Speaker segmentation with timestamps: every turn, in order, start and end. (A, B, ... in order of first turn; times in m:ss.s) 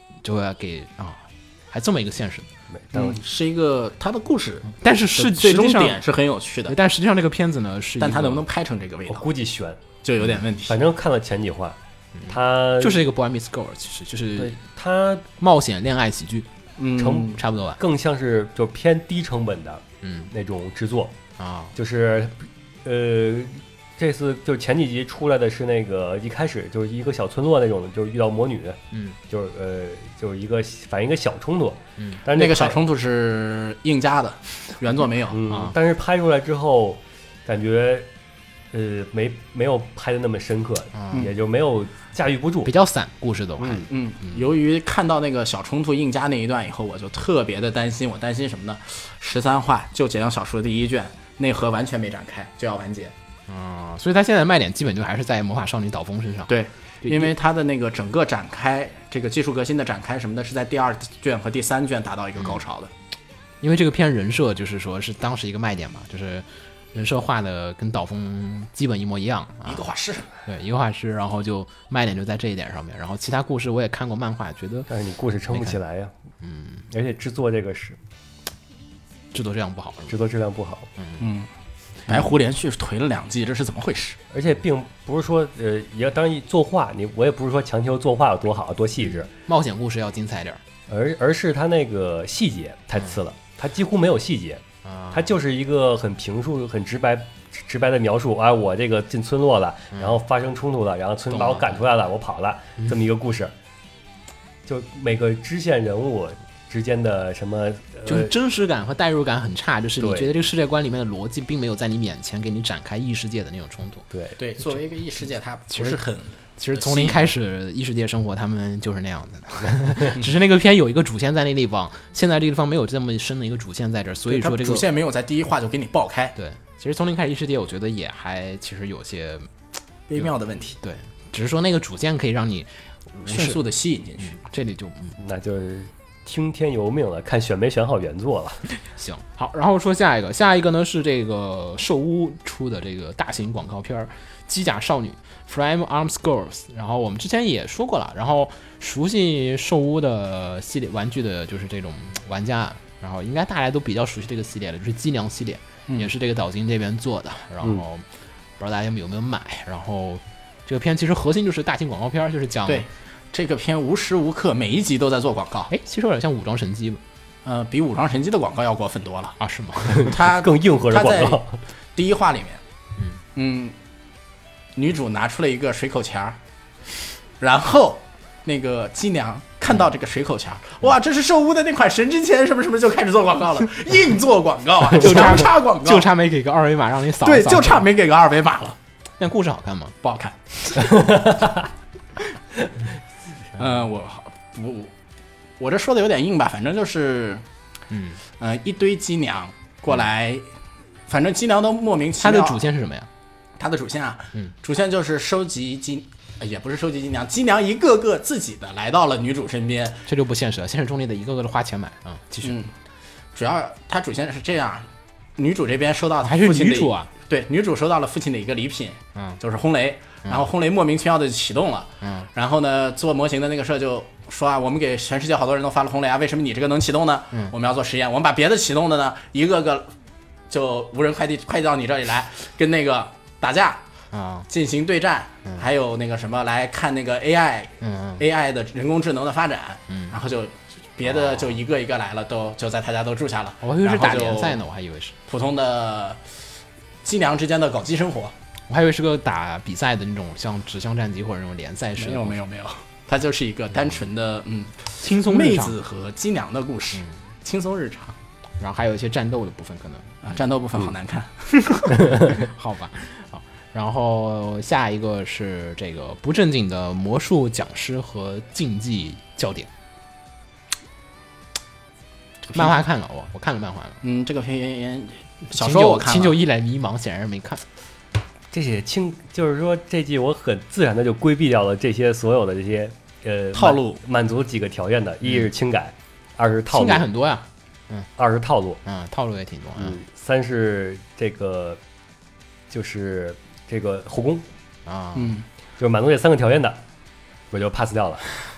0:00.2-0:02.5 A
0:02.7-0:03.2 B
0:02.9-0:06.8 C
0:04.8-0:06.0 A
0:06.7-0:08.4 A
0:08.0-0:09.3 C
0:09.1-0:09.8 B
0:10.0-0:10.8 C
0:10.7-0:13.0 B
0:12.1-0:14.6 A
0:14.4-0:15.2 B
0:15.4-0:16.5 A
0:16.8-0:17.4 C
0:17.0-0:21.1 B
0:17.2-0:17.8 A
0:20.0-0:20.3 A
0:21.4-0:21.7 A
0:21.7-0:32.8 B
0:32.3-0:35.4 C
0:35.3-0:38.1 B
0:35.5-0:35.7 A
0:38.7-0:42.7 B
0:40.9-0:41.2 A
0:42.6-0:44.5 A
0:43.6-0:43.8 B
0:43.9-0:53.1 C
0:53.5-0:57.3 A
0:56.5-1:02.9 C
1:03.6-1:09.8 A
1:09.6-1:10.3 C
1:10.4-1:14.9 A
1:14.9-1:16.1 B
1:15.5-1:15.8 A
1:16.4-1:16.8 A
1:16.9-1:18.0 B
1:19.3-1:20.1 A
1:20.1-1:20.9 B
1:21.0-1:21.2 A
1:21.2-1:21.5 C
1:22.1-1:24.2 C
1:24.3-1:29.3 B
1:29.0-1:30.6 A
1:30.9-1:43.5 B
1:34.8-1:35.3 A
1:39.9-1:40.2 A
1:41.3-1:41.8 A
1:44.6-1:48.3 B
1:48.1-1:54.0 A
1:50.0-1:50.3 B
1:54.1-1:54.4 B
1:54.4-1:57.2 C
1:55.7-1:56.0 A
1:56.6-2:04.8 A
2:04.3-2:06.4 C
2:06.4-2:09.5 A
2:10.1-2:10.8 C
2:10.8-2:13.6 A
2:13.2-2:14.4 C
2:14.2-2:15.2 A
2:15.2-2:18.6 B
2:19.0-2:38.0 A
2:38.6-2:42.9 A
2:42.6-2:45.7 C
2:45.7-2:47.0 A
2:47.4-2:49.4 C
2:49.4-2:50.2 A
2:49.9-2:51.6 B
2:50.0-2:51.4 C
2:51.9-2:52.6 C
2:53.3-2:53.8 C
2:54.7-2:56.4 C
2:57.4-3:06.1 C
3:04.9-3:07.8 A
3:07.2-3:08.8 C
3:09.2-3:10.0 A
3:10.0-3:11.1 C
3:10.8-3:11.6 B
3:13.6-3:14.9 C
3:15.6-3:17.4 C
3:17.9-3:18.2 A
3:18.4-3:20.4 C
3:21.1-3:22.6 C
3:22.2-3:23.1 A
3:23.6-3:30.0 C
3:30.1-3:32.6 A
3:32.4-3:32.7 C
3:33.3-3:49.9 C
3:36.2-3:37.1 A
3:42.0-3:42.3 A
3:50.5-3:53.8 C
3:54.1-3:54.4 A
3:54.5-4:04.6 C
3:57.8-3:58.2 A
3:59.9-4:00.2 A
4:01.0-4:01.6 A
4:03.6-4:05.1 A
4:05.3-4:06.2 C
4:07.0-4:08.3 C
4:08.7-4:12.4 A
4:12.0-4:18.2 C
4:15.0-4:15.8 A
4:18.6-4:20.2 A
4:20.2-4:21.6 C
4:21.6-4:29.7 A
4:22.0-4:22.3 B
4:32.5-4:32.7 C
4:32.5-4:34.0 A
4:34.0-4:36.4 C
4:35.5-4:37.6 A
4:38.5-4:47.0 B
4:43.5-4:44.0 C
4:45.2-4:45.5 A
4:46.7-4:48.1 A
4:48.2-4:48.8 B
4:48.8-4:50.0 A
4:49.8-4:51.8 B
4:52.7-4:54.4 B
4:54.8-4:55.4 A
4:55.1-4:55.4 C
4:55.8-4:56.8 B
4:57.5-4:58.3 B